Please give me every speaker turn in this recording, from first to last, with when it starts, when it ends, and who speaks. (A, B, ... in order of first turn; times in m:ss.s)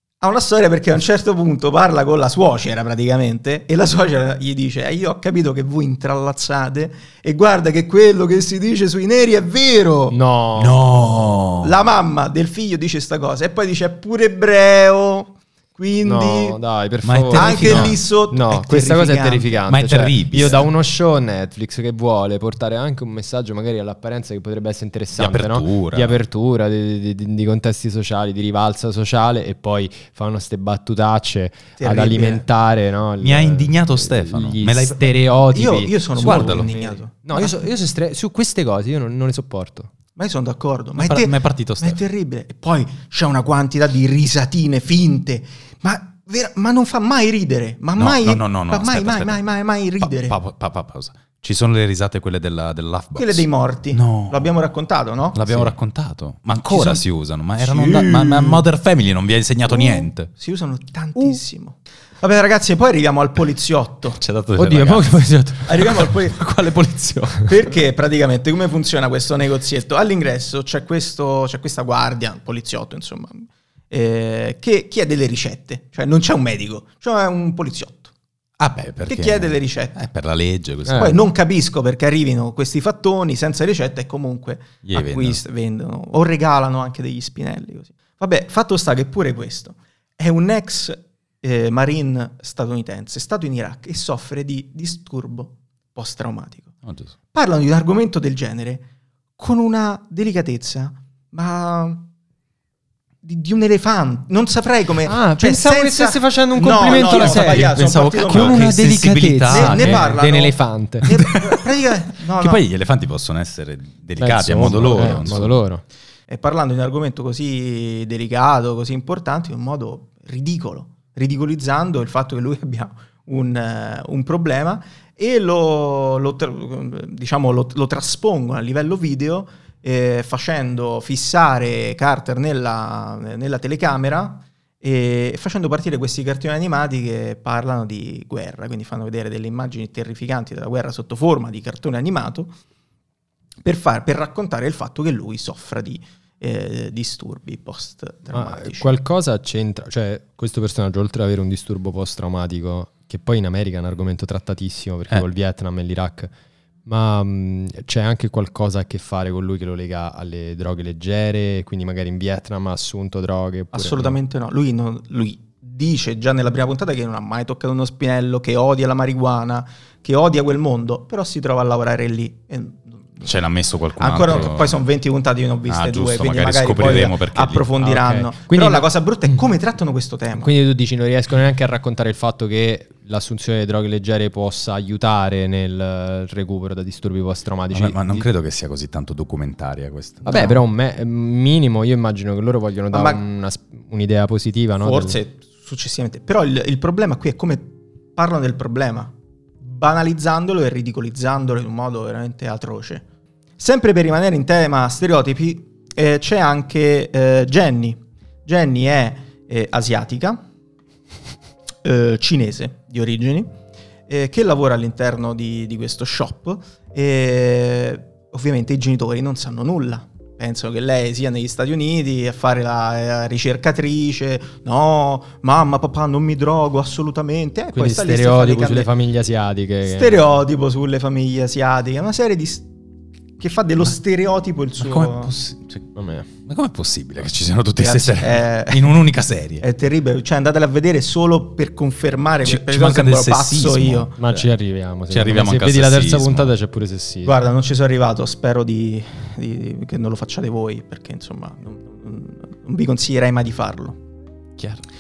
0:00.2-0:10.2 A
0:10.1-0:10.8 B
0:10.6-0:11.7 C
0:11.6-0:16.6 A
0:16.0-0:39.9 B
0:17.0-0:18.0 C
0:17.3-0:19.6 A
0:19.7-0:20.7 C
0:25.2-0:26.2 C
0:31.8-0:32.4 A
0:33.2-0:35.2 C
0:35.5-0:37.6 A
0:36.2-0:36.8 C
0:40.2-0:50.4 A
0:41.0-0:42.0 C
0:48.0-0:49.4 C
0:50.0-0:54.5 C
0:53.2-0:55.7 A
0:55.3-1:00.3 C
0:56.5-0:57.0 A
0:57.6-0:58.6 A
0:59.7-1:04.2 A
1:04.2-1:07.5 C
1:04.6-1:05.7 B
1:05.7-1:06.4 A
1:07.4-1:18.1 A
1:18.6-1:21.1 C
1:19.0-1:20.1 A
1:20.9-1:21.2 B
1:20.9-1:36.7 A
1:24.8-1:25.4 C
1:36.8-1:37.1 C
1:37.3-1:42.1 A
1:43.2-1:48.8 A
1:45.1-1:51.2 B
1:46.9-1:50.2 C
1:49.5-1:52.6 A
1:51.0-1:51.6 C
1:52.2-1:55.6 C
1:54.2-1:55.8 B
1:56.3-2:22.5 A
2:23.6-2:29.0 A
2:28.3-2:36.3 B
2:36.9-2:44.2 B
2:43.7-2:53.3 A
2:53.2-2:54.8 C
2:54.0-3:00.5 A
2:55.7-2:57.7 C
2:57.8-2:59.4 B
3:00.4-3:08.3 B
3:07.7-3:10.6 C
3:10.2-3:15.2 B
3:10.3-3:10.6 A
3:12.9-3:13.2 A
3:14.8-3:23.0 A
3:23.6-3:30.4 A
3:31.8-3:33.5 A
3:34.1-3:48.9 A
3:47.7-3:50.2 B
3:49.8-3:52.7 A
3:53.4-3:55.3 A
3:54.8-3:55.9 C
3:56.0-3:56.3 B
3:56.5-3:59.6 C
3:57.8-3:59.0 A
3:59.6-4:04.1 A
4:02.4-4:04.5 C
4:04.2-4:07.4 B
4:05.1-4:06.5 C
4:07.2-4:14.0 A